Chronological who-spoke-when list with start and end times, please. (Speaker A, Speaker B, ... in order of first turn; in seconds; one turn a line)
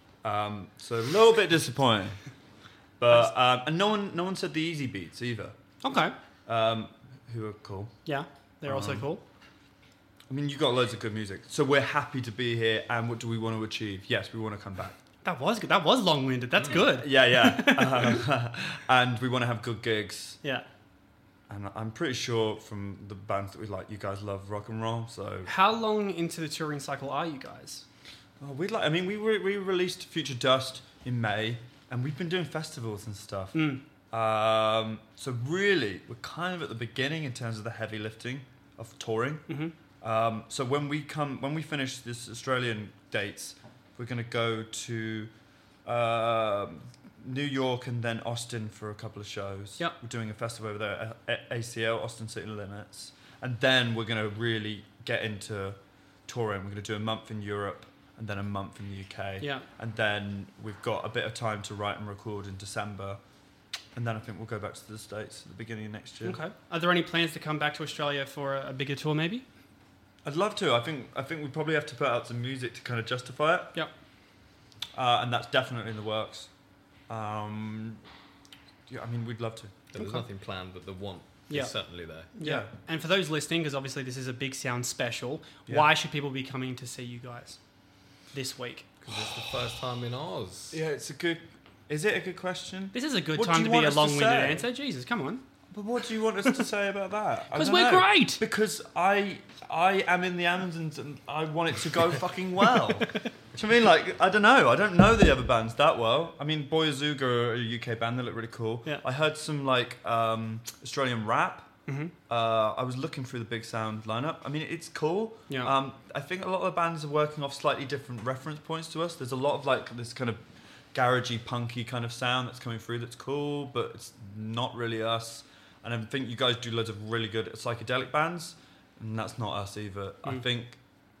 Speaker A: 0.2-2.2
Speaker A: 3.0-5.5
Speaker B: 5.8-6.1
Speaker A: 6.5-8.0
Speaker B: 8.1-9.2
Speaker A: 8.6-9.1
Speaker A: 10.3-15.0
Speaker B: 15.2-18.2
Speaker A: 16.7-20.4
Speaker A: 21.5-25.5
Speaker B: 25.4-27.8
Speaker A: 28.4-39.4
Speaker B: 33.5-33.8
Speaker B: 39.5-39.7
Speaker A: 40.0-45.3
Speaker A: 45.8-63.2
Speaker B: 59.4-59.6
Speaker A: 63.9-66.4
Speaker B: 66.2-69.4
Speaker A: 70.2-73.8
Speaker A: 74.9-76.5
Speaker A: 77.1-78.0
Speaker A: 78.9-79.7
Speaker C: 79.9-82.4
Speaker B: 80.0-80.2
Speaker B: 82.3-87.6
Speaker A: 82.4-82.7
Speaker B: 88.3-88.8
Speaker C: 89.0-90.8
Speaker A: 90.7-94.7
Speaker B: 92.9-95.4
Speaker A: 95.7-111.8
Speaker B: 97.5-98.4
Speaker B: 111.9-112.1
Speaker A: 112.3-130.8